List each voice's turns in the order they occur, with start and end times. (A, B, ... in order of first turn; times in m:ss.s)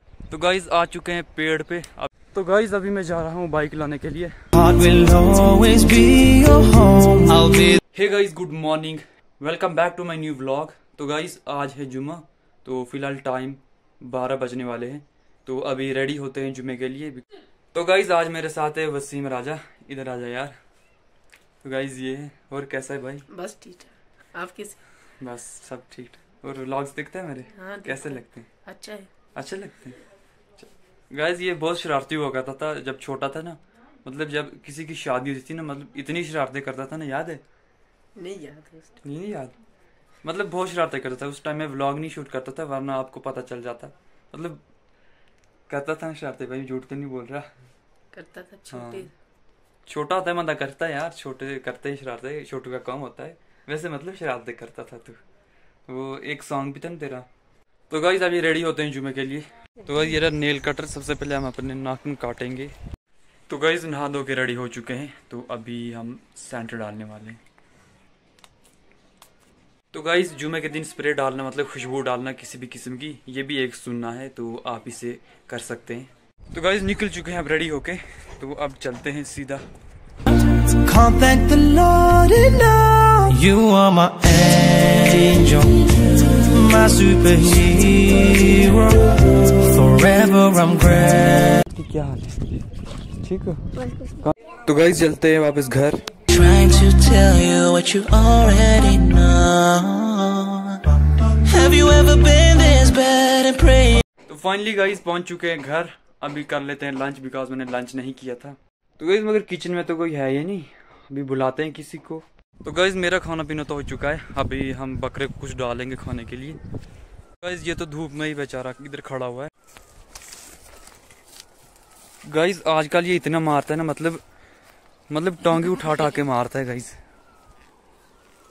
0:00.3-0:04.4 A
0:04.5-0:07.7 B
0:07.9-0:20.6 A
0:21.6-0:23.3 A
0:23.3-0:24.8 C
0:25.2-0:28.5 A
0:27.5-0:29.1 C
0:29.4-0:30.0 A
0:31.1-0:37.4 A
0:38.2-0:39.0 C
0:39.0-0:39.6 A
0:40.2-0:44.6 A
0:45.7-0:47.5 A
0:48.1-0:49.1 C
0:48.7-0:49.1 A
0:49.9-0:55.2 A
0:55.9-0:57.3 A
0:57.9-1:02.7 A
1:03.5-1:07.4 A
1:09.9-1:19.6 A
1:20.3-1:31.6 B
1:31.7-1:36.0 A
1:36.3-1:44.0 B
1:44.2-1:56.6 A
1:57.4-1:59.5 A
2:02.3-2:04.2 A
2:05.1-2:07.0 A